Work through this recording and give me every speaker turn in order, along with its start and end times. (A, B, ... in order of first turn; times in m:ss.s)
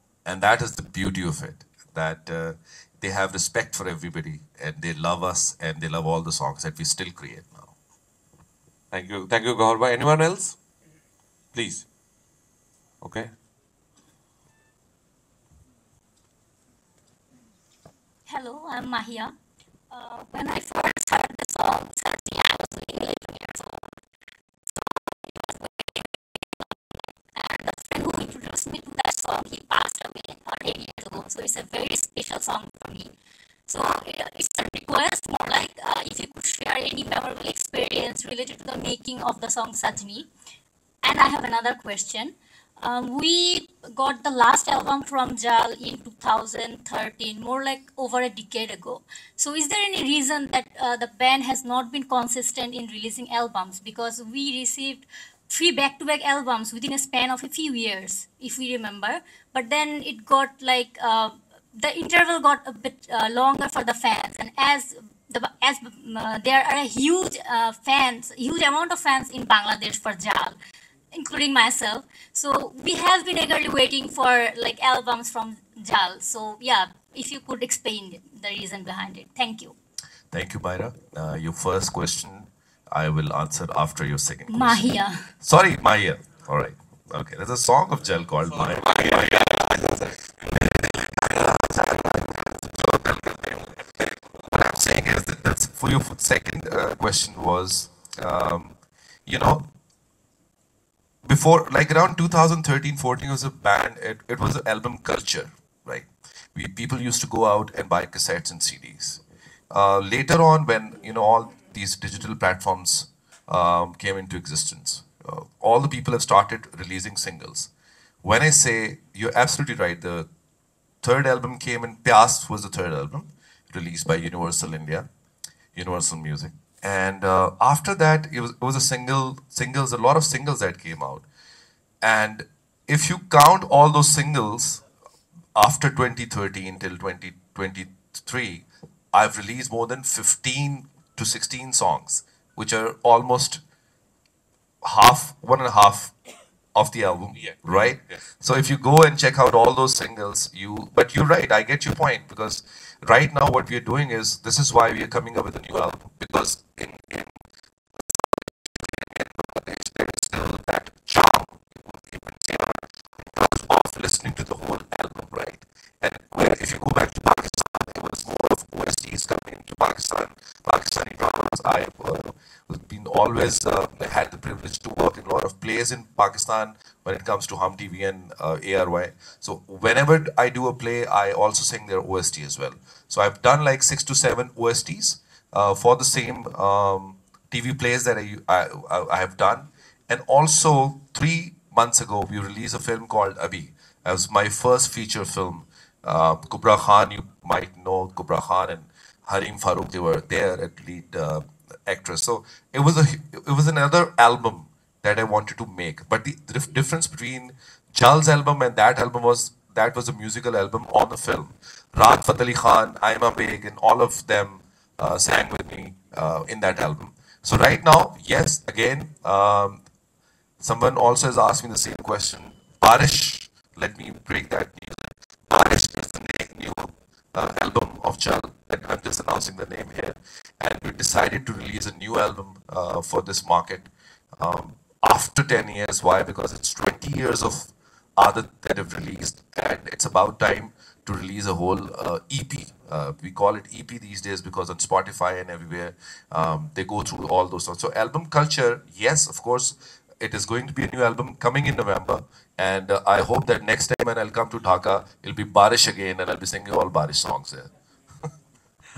0:00.2-0:07.7 A
0:08.9-0:10.6 B
0:11.5-0:11.8 B
0:13.0-0:13.3 B
0:18.3-0:19.3 C
0:19.9-0:24.0 C
0:24.7-0:26.7 C
0:27.3-0:33.1 C
0:33.7-0:40.3 C
0:41.0-1:10.6 C
1:11.1-1:19.7 C
1:20.3-1:24.9 A
1:24.5-1:25.3 C
1:25.4-1:29.6 A
1:28.5-1:30.2 B
1:31.1-1:33.4 A
1:34.5-1:38.7 A
1:39.2-1:39.7 A
1:41.2-1:57.7 A
1:58.2-2:00.3 A
2:01.0-2:05.1 A
2:05.7-2:11.2 A
2:12.0-2:14.8 A
2:15.5-2:23.6 A
2:24.8-2:26.1 A
2:26.7-2:37.3 A
2:27.3-2:28.2 B
2:38.1-3:39.8 A
3:40.6-4:17.7 A